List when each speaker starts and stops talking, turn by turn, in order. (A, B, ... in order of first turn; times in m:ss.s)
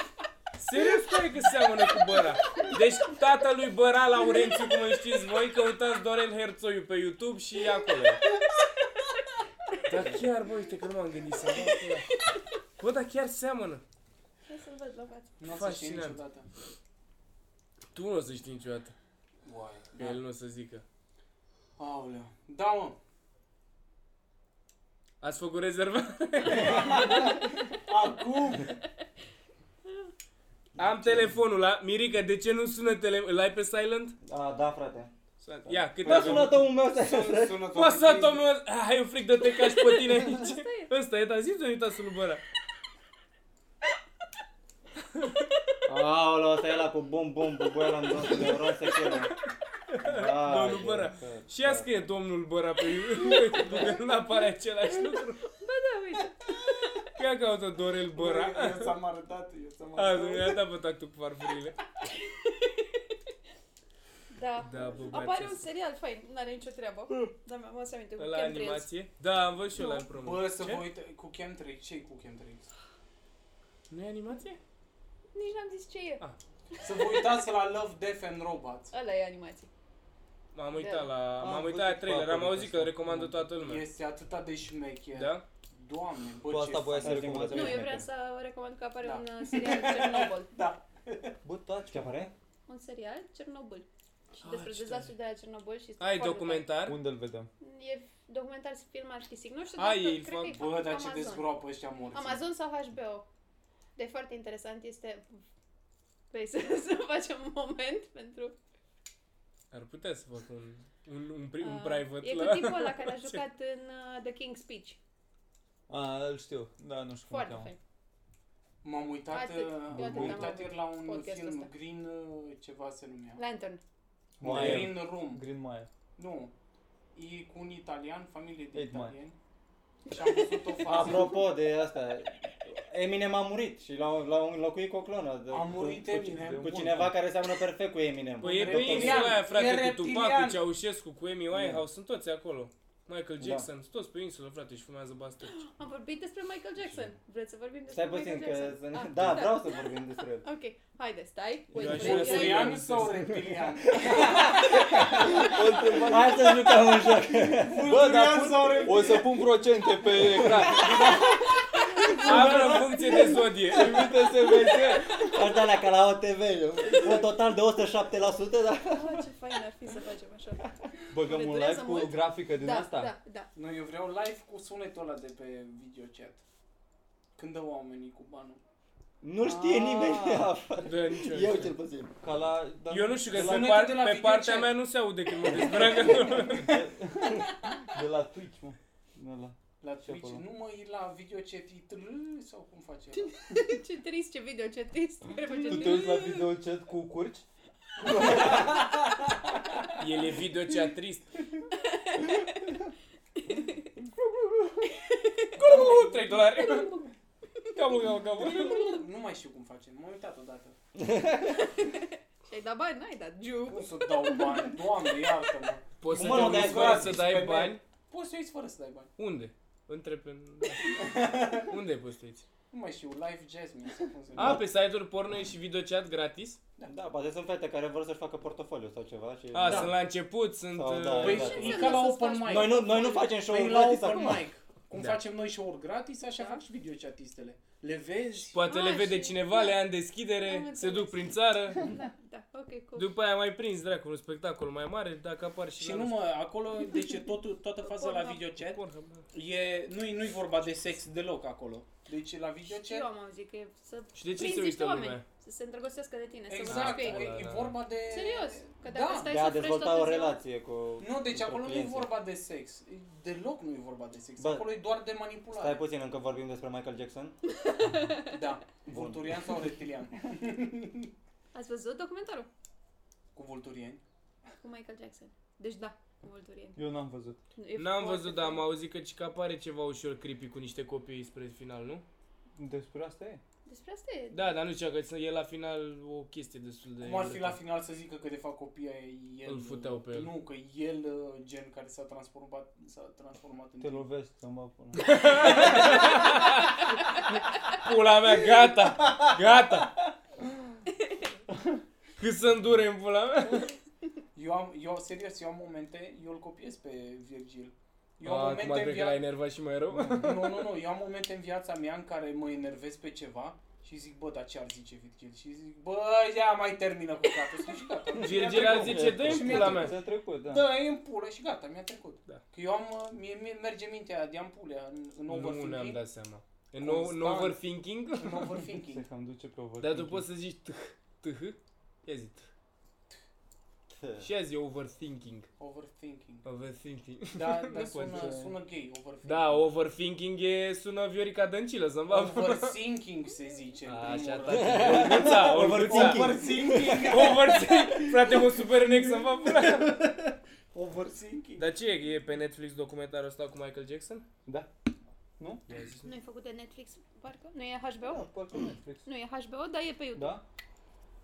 0:00.6-0:08.3 A
0:09.9-0:12.1 A
0:12.1-0:12.4 B
0:12.8-0:13.8 A
0:14.5-0:15.4 B
0:15.4-0:16.5 C
0:15.5-0:16.2 A
0:17.9-0:19.0 A
0:19.5-0:20.2 C
0:20.0-0:20.8 A
0:21.8-0:23.0 C
0:25.2-0:27.4 A
0:26.4-0:28.8 C
0:30.8-0:34.2 A
0:30.8-0:31.3 D
0:34.2-0:35.1 D
0:35.4-0:36.6 A
0:35.7-0:37.7 D
0:36.0-0:38.4 C
0:37.8-0:42.4 A
0:39.5-0:40.9 B
0:45.9-0:49.3 D
0:49.9-0:55.5 A
0:50.0-0:51.9 D
0:55.4-0:57.1 B
0:57.2-0:59.0 A
0:58.1-1:00.6 C
1:00.0-1:01.8 A
1:02.0-1:03.2 B
1:04.3-1:08.9 B
1:04.6-1:05.6 A
1:08.2-1:10.8 A
1:09.8-1:10.1 B
1:10.1-1:12.7 C
1:13.9-1:14.6 A
1:15.3-1:16.2 B
1:16.8-1:17.3 B
1:16.8-1:18.9 C
1:18.9-1:19.7 B
1:20.5-1:23.9 A
1:20.7-1:21.1 B
1:21.4-1:23.4 E
1:23.6-1:27.5 C
1:25.1-1:25.4 A
1:26.5-1:28.0 E
1:27.0-1:28.1 D
1:27.5-1:30.5 B
1:29.0-1:31.4 C
1:31.4-1:32.2 E
1:31.9-1:32.3 D
1:32.7-1:36.7 B
1:34.4-1:35.1 A
1:36.0-1:37.0 A
1:36.8-1:37.5 E
1:37.6-1:41.5 B
1:39.8-1:40.6 A
1:40.4-1:42.4 C
1:42.1-1:43.3 B
1:44.0-1:45.4 B
1:46.3-1:48.6 B
1:49.7-1:53.4 A
1:51.6-1:55.0 B
1:55.9-1:57.7 E
1:57.3-1:57.8 B
1:58.8-2:03.4 C
1:59.3-2:01.7 B
1:59.9-2:00.6 E
2:03.4-2:03.8 B
2:04.4-2:05.9 E
2:04.4-2:04.9 D
2:04.4-2:05.4 C
2:06.2-2:06.5 C
2:07.1-2:09.4 C
2:08.8-2:09.1 E
2:10.1-2:11.4 C
2:10.1-2:10.8 B
2:10.9-2:19.4 D
2:15.5-2:17.2 C
2:16.0-2:17.0 E
2:18.4-2:25.6 A
2:18.5-2:20.6 C
2:21.6-2:21.8 D
2:23.4-2:23.7 D
2:25.5-2:29.9 B
2:27.9-2:30.5 D
2:30.4-2:33.0 B
2:31.8-2:33.4 A
2:31.8-2:32.4 E
2:31.9-2:35.0 C
2:34.0-2:37.9 D
2:34.4-2:35.6 B
2:35.1-2:36.8 E
2:37.6-2:39.4 C
2:37.8-2:41.3 E
2:40.2-2:41.2 D
2:40.8-2:41.2 C
2:41.1-2:42.8 B
2:42.0-2:43.3 C
2:42.1-2:44.7 A
2:42.3-2:42.8 E
2:43.7-2:45.3 E
2:44.7-2:45.3 B
2:45.2-2:49.3 D
2:48.9-2:53.5 B
2:51.1-2:53.1 E
2:53.6-2:56.4 C
2:57.4-2:58.6 C
2:59.2-3:02.2 D
2:59.4-3:00.5 E
3:00.8-3:01.7 A
3:02.2-3:03.8 E
3:02.9-3:06.9 A
3:03.3-3:04.7 C
3:05.6-3:10.4 E
3:07.4-3:07.9 B
3:09.8-3:13.7 C
3:13.4-3:16.6 B
3:15.4-3:17.5 E
3:18.0-3:18.8 E
3:18.2-3:18.5 B
3:18.5-3:18.8 C
3:19.9-3:21.4 A
3:21.7-3:22.8 B
3:23.4-3:23.9 B
3:24.9-3:27.8 B
3:25.6-3:26.4 C
3:25.6-3:27.0 A
3:27.7-3:28.9 A
3:28.4-3:30.8 C
3:28.5-3:29.0 B
3:31.0-3:31.7 D
3:31.8-3:35.3 B
3:33.7-3:39.1 C
3:36.0-3:37.8 A
3:36.1-3:37.2 D
3:39.2-3:42.5 A
3:40.9-3:41.7 C
3:42.7-3:44.6 C
3:44.4-3:46.6 A
3:44.4-3:44.6 D
3:46.9-3:50.0 D
3:49.5-3:51.6 A
3:49.6-3:49.9 C
3:50.7-3:54.4 D
3:51.1-3:58.6 C
3:51.3-3:53.4 B
3:55.0-3:55.2 A
3:56.4-3:56.6 B
3:58.5-4:01.9 A
3:58.6-3:59.8 B
4:00.4-4:03.1 B
4:03.0-4:06.2 A
4:05.8-4:08.8 C
4:07.8-4:08.4 B
4:08.6-4:09.3 A
4:09.3-4:13.1 C
4:12.6-4:17.5 B
4:14.2-4:15.2 A
4:16.5-4:19.4 C
4:16.7-4:17.8 A
4:18.0-4:20.4 B
4:19.2-4:22.1 D
4:21.0-4:25.8 C
4:24.4-4:24.7 D
4:25.6-4:27.4 D
4:27.6-4:28.4 B
4:28.3-4:31.1 C
4:28.9-4:29.4 D
4:31.5-4:32.5 B
4:33.4-4:34.0 C
4:34.6-4:36.8 B
4:36.8-4:37.4 E
4:37.6-4:38.7 B
4:37.8-4:42.0 A
4:42.6-4:43.4 E
4:43.7-4:44.5 B
4:44.3-4:47.6 A
4:47.0-4:54.1 C
4:49.5-4:50.4 A
4:53.8-4:55.7 E
4:55.0-4:56.8 A
4:55.4-4:55.9 C
4:57.6-4:59.9 A
4:59.0-4:59.3 C
5:02.2-5:03.7 A
5:04.4-5:09.2 C
5:08.2-5:10.7 A
5:10.0-5:26.0 C
5:18.2-5:19.9 A
5:18.5-5:20.6 D
5:25.3-5:28.7 A
5:26.8-5:27.6 C
5:28.2-5:29.0 C
5:28.9-5:30.2 E
5:29.8-5:32.5 A
5:33.9-5:34.3 D
5:34.2-5:35.5 A
5:35.6-5:36.4 C
5:36.4-5:38.3 A
5:37.3-5:39.6 C
5:37.8-5:38.5 E
5:39.2-5:42.8 A
5:42.1-5:47.6 C
5:43.9-5:50.0 A
5:44.5-5:47.2 D
5:49.4-5:51.7 C
5:51.6-5:54.2 A
5:55.7-5:56.1 A
5:56.0-5:58.3 B
5:58.1-5:59.1 E
5:59.1-6:00.4 B
6:00.1-6:00.4 E